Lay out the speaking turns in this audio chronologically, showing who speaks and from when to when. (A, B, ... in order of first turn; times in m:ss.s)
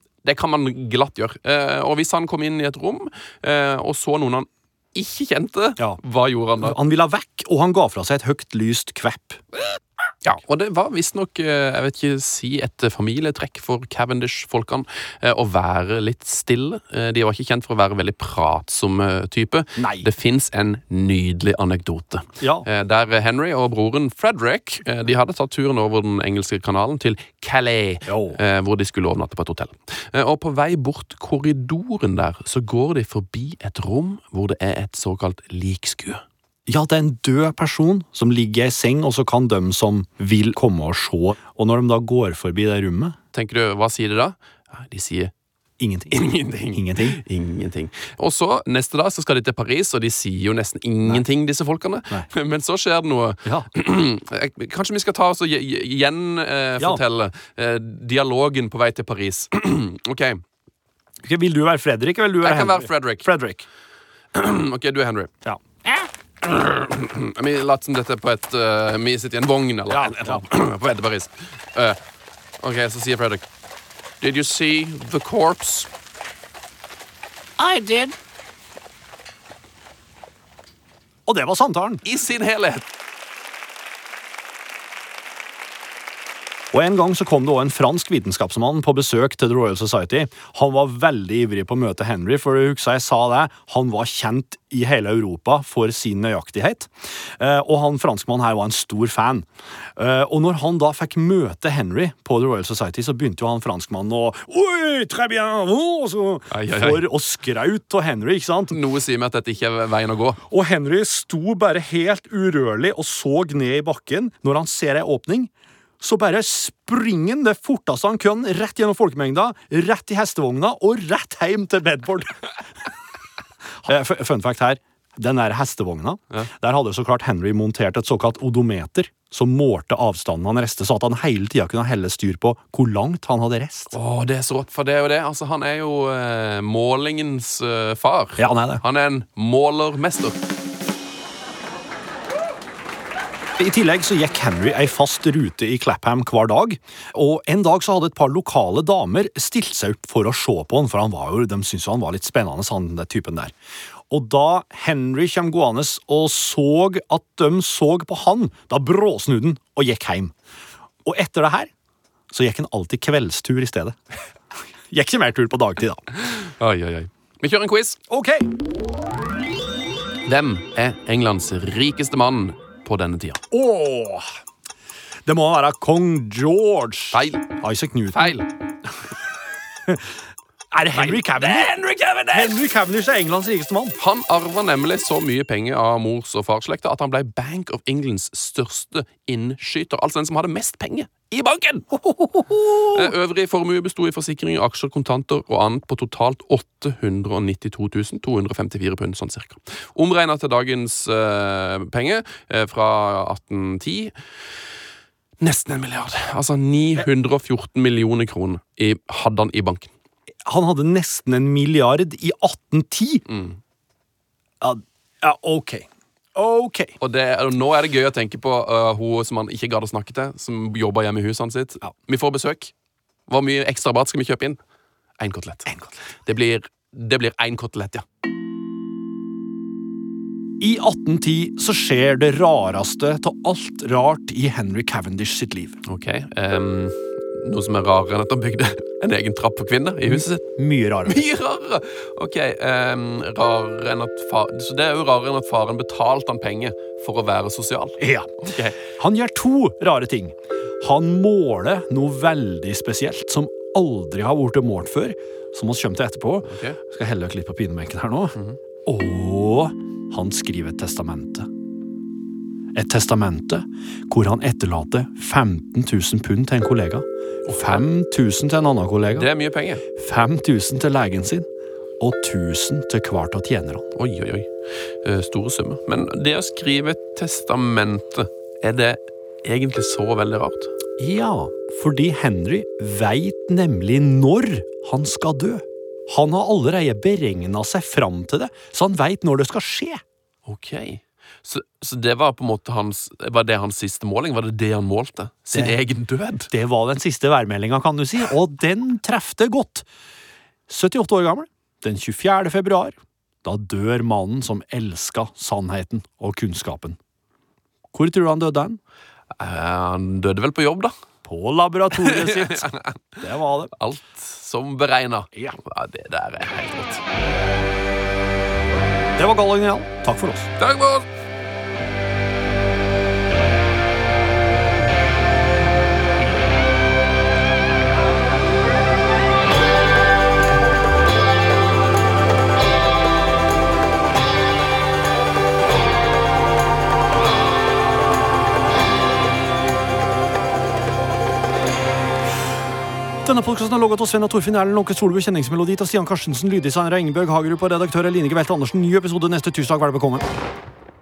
0:00.2-0:06.8 A
0:06.6-0:09.4 B
0:10.2-0:36.2 A
0:19.8-0:20.0 B
0:22.4-0:22.6 B
0:28.1-0:28.4 B
0:36.7-0:43.2 B
0:43.3-0:45.3 A
0:45.8-0:47.2 B
0:46.1-1:00.4 A
1:01.2-1:03.6 B
1:02.4-1:03.3 A
1:04.3-1:05.3 A
1:05.4-1:06.0 B
1:06.4-1:12.0 A
1:09.9-1:10.4 B
1:12.6-1:13.4 A
1:14.2-1:15.9 A
1:17.6-1:18.1 B
1:21.2-1:22.0 B
1:22.0-1:22.9 A
1:26.7-1:48.8 B
1:46.5-1:47.0 A
1:48.7-1:50.4 A
1:50.5-1:55.5 B
1:56.0-2:02.5 B
2:03.8-2:13.9 B
2:13.9-2:20.4 A
2:18.4-2:18.8 B
2:23.6-2:33.5 B
2:34.1-2:40.3 B
2:41.0-2:41.7 B
2:42.3-2:44.0 B
2:44.9-2:46.0 B
2:46.2-2:48.0 A
2:48.1-2:48.5 B
2:50.2-2:53.4 A
2:53.5-2:54.3 B
2:55.2-2:58.4 B
2:57.1-2:57.5 A
2:58.1-2:58.5 A
3:00.7-3:01.8 B
3:00.9-3:02.7 A
3:02.3-3:04.0 B
3:04.0-3:12.0 A
3:12.0-3:13.0 B
3:12.6-3:24.1 A
3:25.4-3:29.9 A
3:30.4-3:33.2 B
3:33.3-3:33.6 A
3:34.6-3:36.9 B
3:37.0-3:42.7 A
3:43.3-3:44.6 A
3:45.2-3:48.0 A
3:50.6-3:55.8 B
3:55.8-4:00.5 A
4:00.1-4:01.2 B
4:01.0-4:08.8 A
4:08.0-4:21.5 B
4:16.4-4:16.8 A
4:22.7-4:29.3 B
4:27.5-4:27.7 A
4:29.1-4:29.8 A
4:29.9-4:31.5 B
4:32.0-4:33.9 B
4:33.9-4:40.7 A
4:41.0-4:50.0 B
4:50.4-4:56.5 A
4:56.5-4:59.9 B
5:00.7-5:07.0 B
5:07.9-5:08.8 B
5:09.4-5:10.9 A
5:11.2-5:13.7 B
5:12.0-5:13.0 A
5:13.7-5:17.0 A
5:19.2-5:20.5 B
5:20.6-5:21.1 A
5:43.2-5:50.3 B